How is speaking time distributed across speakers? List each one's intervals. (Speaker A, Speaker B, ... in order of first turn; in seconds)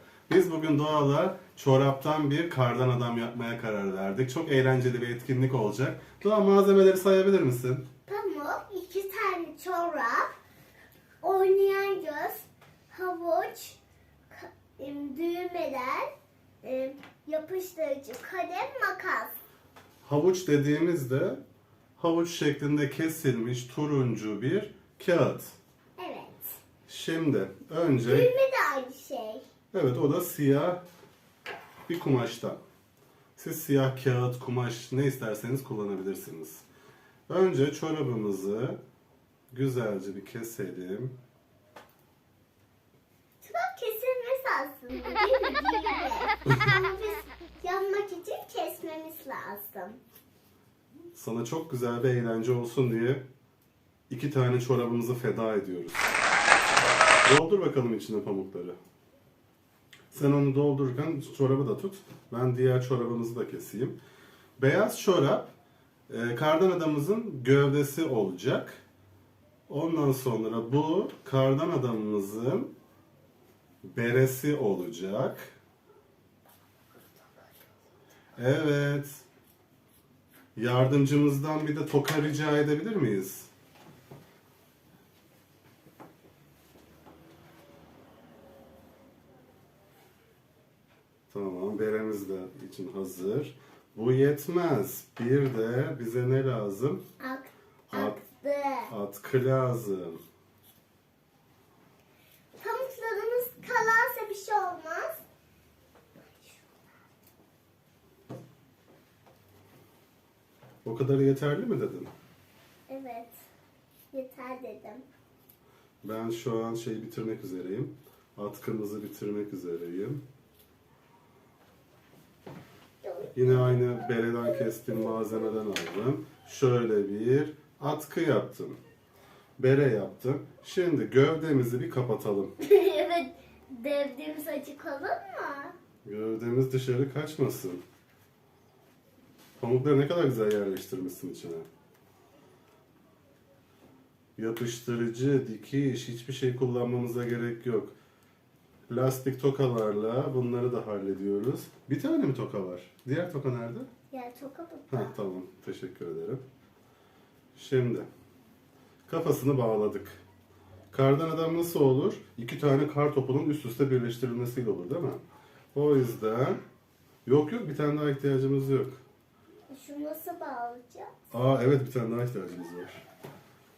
Speaker A: 0.3-7.8, 20.0-21.4, 22.0-25.6, 26.9-28.3, 29.7-30.8, 31.9-32.6, 33.4-36.6, 37.3-38.8, 39.5-41.1, 51.1-53.2, 54.1-56.0, 57.2-58.8, 60.1-64.0, 64.6-65.5, 66.1-68.8, 69.7-72.7, 73.8-75.5, 78.3-79.2, 80.5-83.5, 91.3-97.0, 97.9-98.2, 98.9-100.2, 110.8-112.1, 116.0-120.2, 123.3-128.8, 129.6-132.5, 136.0-137.8, 139.6-141.7, 144.4-147.9, 148.9-153.9, 154.9-156.4, 157.5-158.1, 159.1-160.2, 160.9-165.2, 165.7-166.6, 167.2-169.0, 171.3-173.0
Speaker B: 8.1-10.3, 11.2-13.8, 14.3-16.1, 16.6-19.4, 26.0-26.6, 28.1-29.4, 43.4-50.0, 97.2-98.9, 102.6-105.2, 106.4-106.7, 112.9-113.4, 114.1-115.0, 123.0-125.4, 132.6-135.7, 154.1-155.2, 169.7-171.1